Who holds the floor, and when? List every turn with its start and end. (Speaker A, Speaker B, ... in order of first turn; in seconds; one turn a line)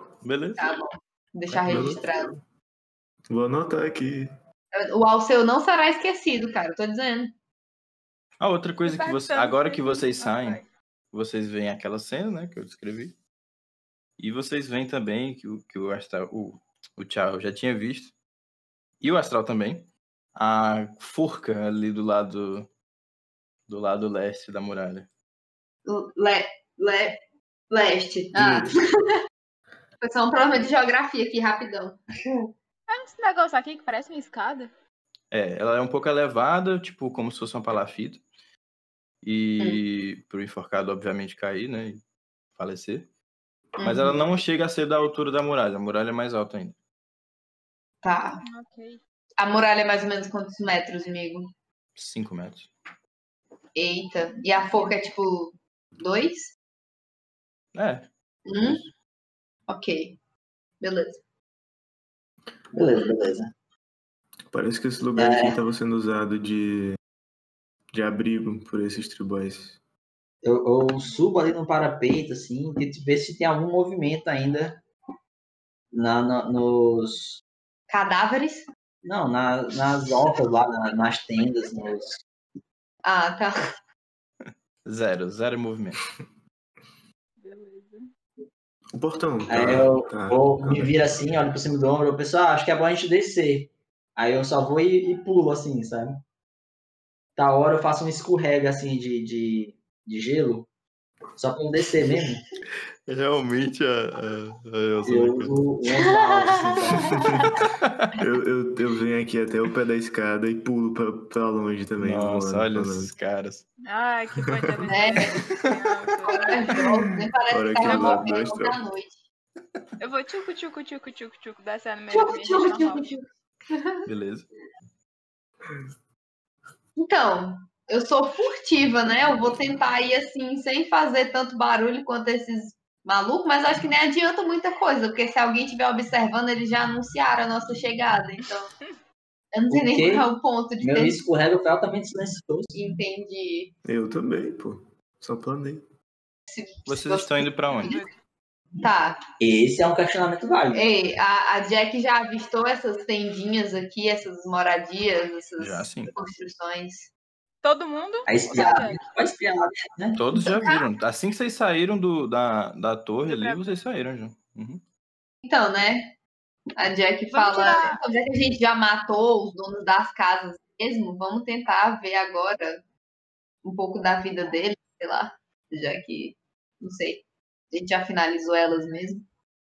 Speaker A: 0.2-0.7
Speaker B: 0.6-2.3
Speaker A: 1.5-2.0
Speaker C: 1.7-2.4
Speaker C: 3.3-4.3
Speaker B: 4.7-7.3
Speaker A: 8.4-13.1
Speaker D: 8.8-10.7
Speaker A: 14.2-18.1
Speaker A: 19.0-22.7
Speaker A: 23.7-25.1
Speaker B: 25.9-27.2
Speaker B: 27.7-29.2
Speaker C: 28.4-28.8
Speaker B: 30.0-32.5
Speaker D: 32.9-34.7
Speaker A: 35.3-38.2
Speaker A: 39.2-42.0
Speaker A: 42.6-43.1
Speaker B: 43.8-44.3
Speaker A: 43.8-46.8
Speaker B: 48.0-48.4
Speaker D: 48.4-49.0
Speaker B: 49.4-51.5
Speaker A: 52.0-52.7
Speaker B: 53.7-56.5
Speaker A: 57.7-58.1
Speaker B: 58.5-58.8
Speaker A: 58.6-58.9
Speaker B: 59.7-60.2
Speaker B: 60.8-61.2
Speaker E: 62.7-63.5
Speaker C: 64.5-67.0
Speaker E: 65.2-65.6
Speaker C: 67.9-69.8
Speaker E: 70.4-74.8
Speaker E: 75.9-77.4
Speaker B: 77.9-78.7
Speaker E: 79.0-82.2
Speaker B: 83.0-83.6
Speaker A: 84.4-86.0
Speaker D: 87.4-88.1
Speaker C: 88.9-91.2
Speaker E: 89.5-96.2
Speaker E: 97.4-100.7
Speaker E: 101.4-102.4
Speaker A: 103.1-105.6
Speaker E: 105.0-107.3
Speaker B: 106.0-107.6
Speaker A: 107.6-108.1
Speaker C: 108.2-113.1
Speaker A: 112.0-113.7
Speaker D: 113.8-116.8
Speaker C: 114.4-114.9
Speaker B: 114.9-115.5
Speaker A: 115.5-115.7
Speaker B: 116.3-119.2
Speaker C: 117.5-118.8
Speaker D: 117.8-118.2
Speaker D: 120.0-123.1
Speaker B: 122.1-124.0
Speaker A: 124.0-124.5
Speaker B: 127.0-138.7
Speaker B: 139.5-141.2
Speaker E: 139.7-142.8
Speaker B: 142.7-143.7
Speaker C: 143.8-145.8
Speaker B: 146.5-148.0
Speaker A: 146.9-148.0
Speaker D: 147.7-148.1
Speaker B: 148.8-149.2
Speaker E: 149.4-150.9
Speaker B: 150.7-157.1
Speaker A: 155.6-156.1
Speaker D: 157.6-159.1
Speaker E: 158.3-160.2
Speaker A: 160.2-164.8
Speaker B: 160.3-160.9
Speaker D: 163.2-163.8
Speaker B: 165.4-166.2
Speaker B: 166.8-172.8
Speaker D: 167.3-168.0
Speaker B: 173.6-179.2